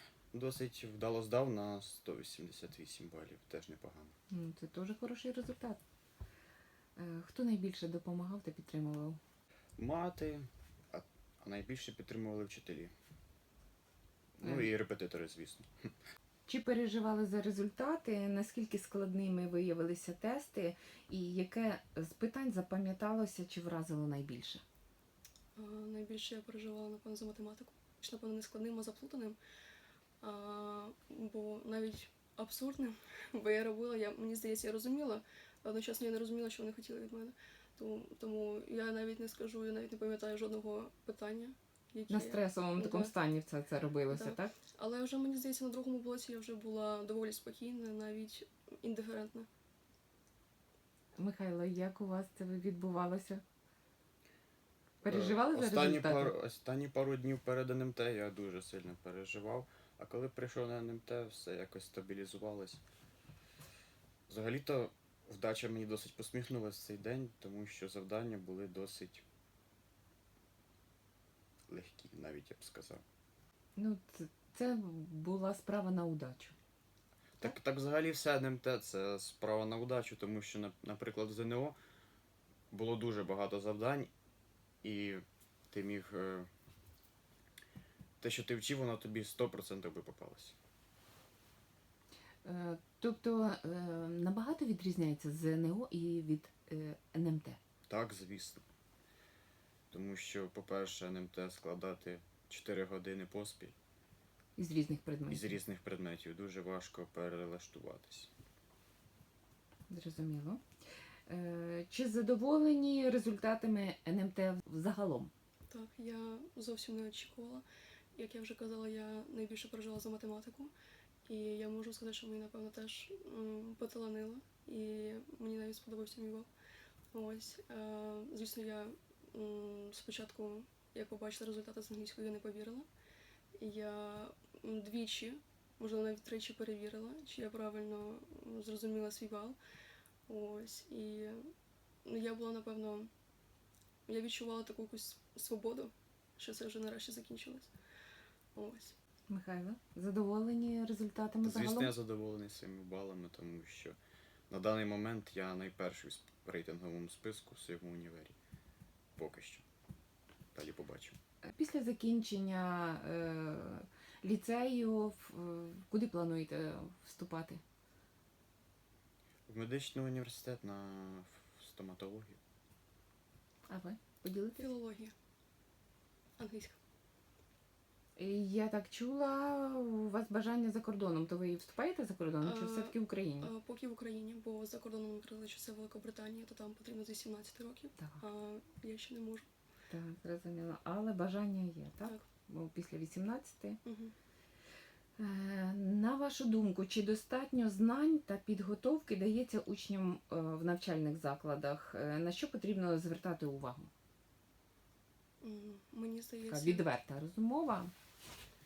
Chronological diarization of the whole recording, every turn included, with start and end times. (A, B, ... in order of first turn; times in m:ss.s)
0:00.3-0:04.1 A
0:04.3-0:05.8 B
0:07.0-0:09.2 B
0:09.8-0:12.9 A
0:14.4-0:14.7 B
0:14.4-0:15.9 A
0:16.5-0:24.6 B
0:25.6-0:29.4 C
0:30.2-0:43.1 C
0:42.1-0:44.5 B
0:44.1-0:49.5 C
0:51.2-0:53.4 B
0:55.0-0:56.3 B
0:55.0-1:02.8 A
1:04.3-1:09.2 A
1:11.7-1:13.0 A
1:13.8-1:16.6 B
1:17.4-1:21.8 A
1:22.7-1:24.1 A
1:24.8-1:26.5 A
1:28.2-1:30.6 A
1:32.4-1:37.6 B
1:37.9-1:38.6 A
1:39.9-1:43.8 A
1:44.6-1:45.6 B
1:45.3-1:48.3 A
1:49.9-1:50.6 B
1:51.3-1:55.3 B
1:55.7-1:57.6 C
1:58.2-2:00.7 C
2:01.2-2:06.5 C
2:07.1-2:12.9 C
2:13.6-2:19.6 C
2:20.3-2:21.5 C
2:22.0-2:23.1 C
2:24.1-2:27.7 C
2:28.5-2:29.0 C
2:29.3-2:31.9 B
2:31.4-2:34.0 A
2:34.5-2:38.4 A
2:39.2-2:39.6 A
2:40.5-2:41.2 A
2:41.5-2:47.6 B
2:49.5-2:52.4 A
2:53.7-2:54.6 B
2:54.6-2:55.1 C
2:56.4-2:56.8 C
2:58.2-3:03.5 B
3:02.4-3:09.5 C
3:09.9-3:13.8 B
3:13.8-3:14.1 C
3:15.2-3:23.9 B
3:25.4-3:26.8 C
3:26.5-3:27.9 B